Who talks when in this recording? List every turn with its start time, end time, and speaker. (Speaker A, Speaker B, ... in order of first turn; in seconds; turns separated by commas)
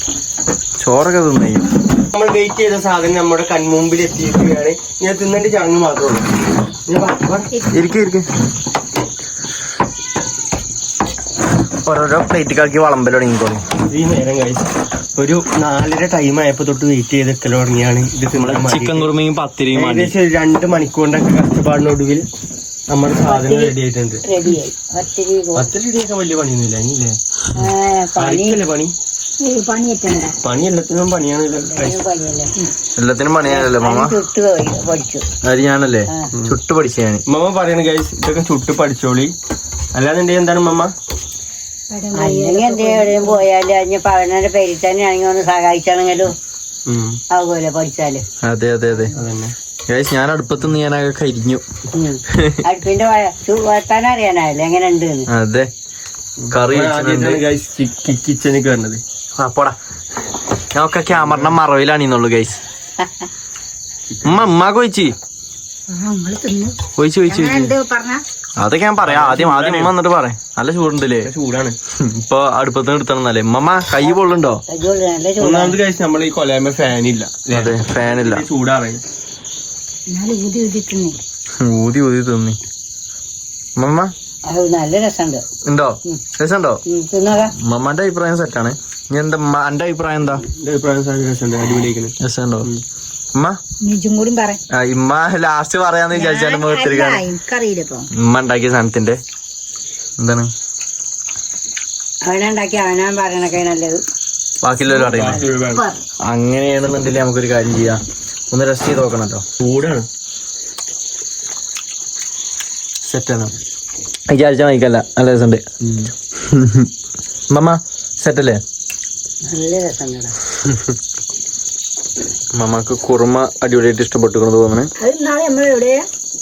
Speaker A: 0.8-1.7, Speaker B: 2.1-6.2, Speaker B: 6.9-7.5, Speaker A: 7.7-8.2, Speaker A: 11.8-13.6, Speaker B: 13.9-19.1, Speaker A: 18.3-20.1, Speaker B: 19.7-22.3, Speaker B: 22.9-24.2, Speaker C: 23.2-25.7, Speaker B: 25.6-27.2, Speaker C: 27.5-28.6, Speaker B: 28.2-28.9, Speaker D: 29.4-30.3, Speaker B: 30.4-32.0, Speaker C: 31.7-32.5, Speaker A: 33.0-34.1, Speaker C: 33.4-35.2, Speaker A: 35.4-37.2, Speaker B: 36.3-36.6, Speaker B: 37.3-39.3, Speaker B: 39.9-40.9, Speaker D: 41.9-43.4, Speaker C: 42.1-46.3, Speaker B: 46.9-47.2, Speaker C: 47.3-48.2, Speaker A: 48.4-49.1, Speaker B: 49.1-49.5, Speaker A: 49.9-51.6, Speaker C: 51.9-55.3, Speaker A: 52.3-52.6, Speaker A: 55.3-55.7, Speaker B: 56.4-59.0, Speaker A: 56.5-57.4, Speaker A: 59.4-59.8, Speaker A: 60.7-62.6, Speaker B: 61.1-61.5, Speaker B: 64.1-64.4, Speaker A: 64.2-65.1, Speaker D: 65.9-66.8, Speaker A: 67.0-67.7, Speaker D: 67.3-68.2, Speaker A: 68.6-71.3, Speaker B: 69.0-69.9, Speaker B: 71.2-71.8, Speaker A: 72.0-74.6, Speaker C: 74.7-75.8, Speaker B: 75.4-79.0, Speaker A: 77.5-78.4, Speaker D: 80.1-81.2, Speaker A: 81.6-82.6, Speaker A: 83.8-84.1, Speaker C: 84.5-85.4, Speaker A: 85.6-86.8, Speaker C: 86.8-87.5, Speaker A: 87.6-90.4, Speaker B: 90.6-92.8, Speaker A: 92.2-92.7, Speaker D: 93.8-94.6, Speaker A: 94.7-97.2, Speaker D: 96.1-98.1, Speaker A: 98.1-99.2, Speaker A: 100.2-100.5, Speaker C: 102.2-104.0, Speaker A: 104.6-105.4, Speaker B: 104.9-105.8, Speaker A: 106.3-109.4, Speaker B: 109.6-110.0, Speaker A: 113.0-113.5, Speaker A: 114.3-115.6, Speaker A: 116.3-116.9, Speaker A: 117.5-118.6, Speaker C: 119.5-120.3, Speaker A: 122.5-124.9, Speaker D: 125.0-126.0